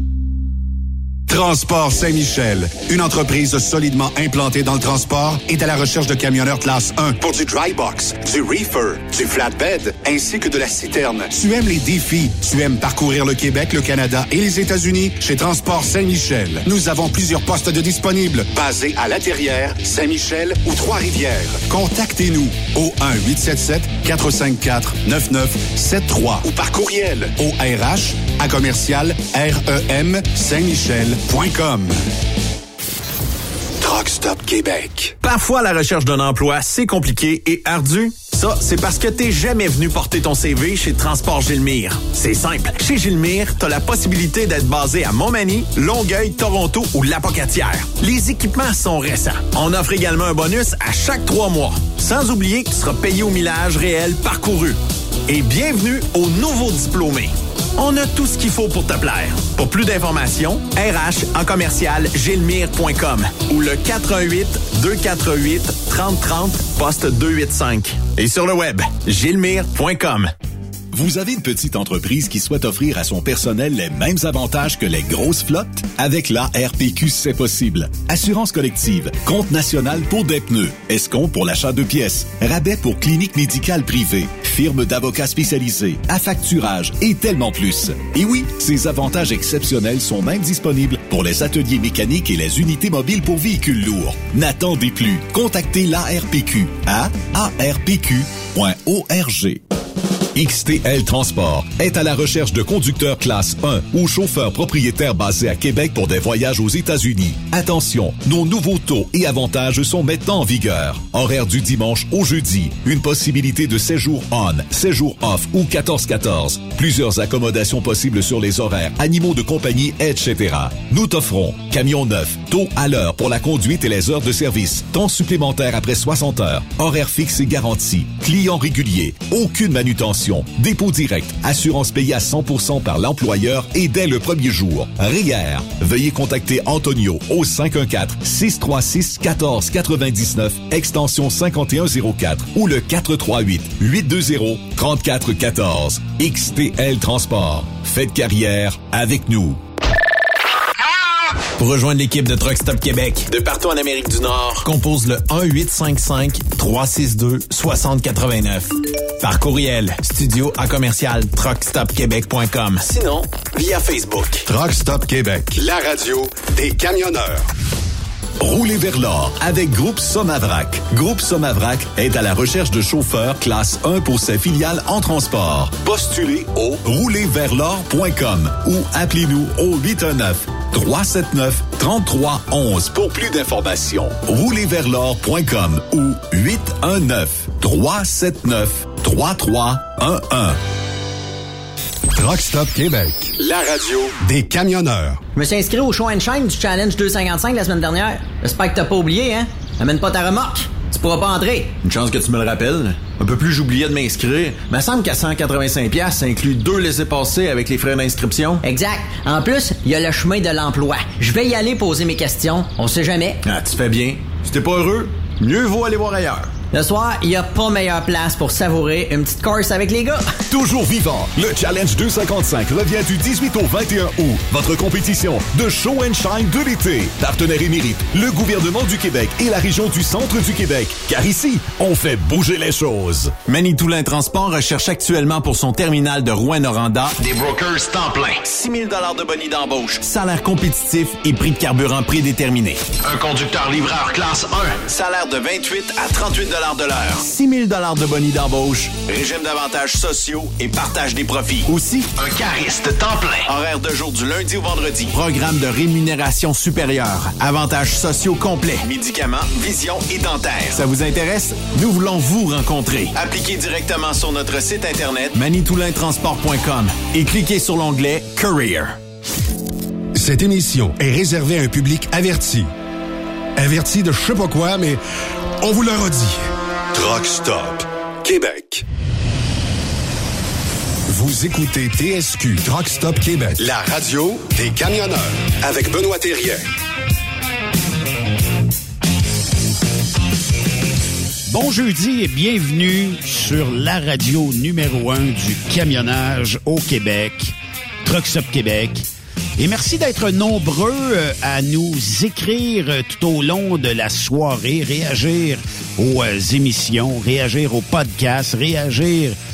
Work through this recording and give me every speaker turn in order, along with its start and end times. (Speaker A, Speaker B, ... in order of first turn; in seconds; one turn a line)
Speaker A: 1.3-32.0
Speaker A: 33.8-35.1
Speaker B: 35.2-70.3
Speaker C: 70.9-99.6
Speaker C: 100.3-149.6
Speaker B: 151.6-164.4
Speaker A: 164.5-167.4
Speaker C: 168.4-190.6
Speaker A: 192.2-193.4
Speaker C: 193.5-194.0
Speaker A: 194.1-195.2
Speaker D: 195.3-201.7
Speaker B: 201.8-208.6
Speaker D: 208.6-213.4
Speaker B: 213.4-216.5
Speaker D: 216.7-220.2
Speaker C: 220.5-233.3
Speaker B: 233.5-269.0
Speaker A: 270.1-272.7
Speaker A: 273.6-275.0
Speaker A: 275.6-278.8
Speaker A: 281.1-286.7
Speaker E: 291.5-309.4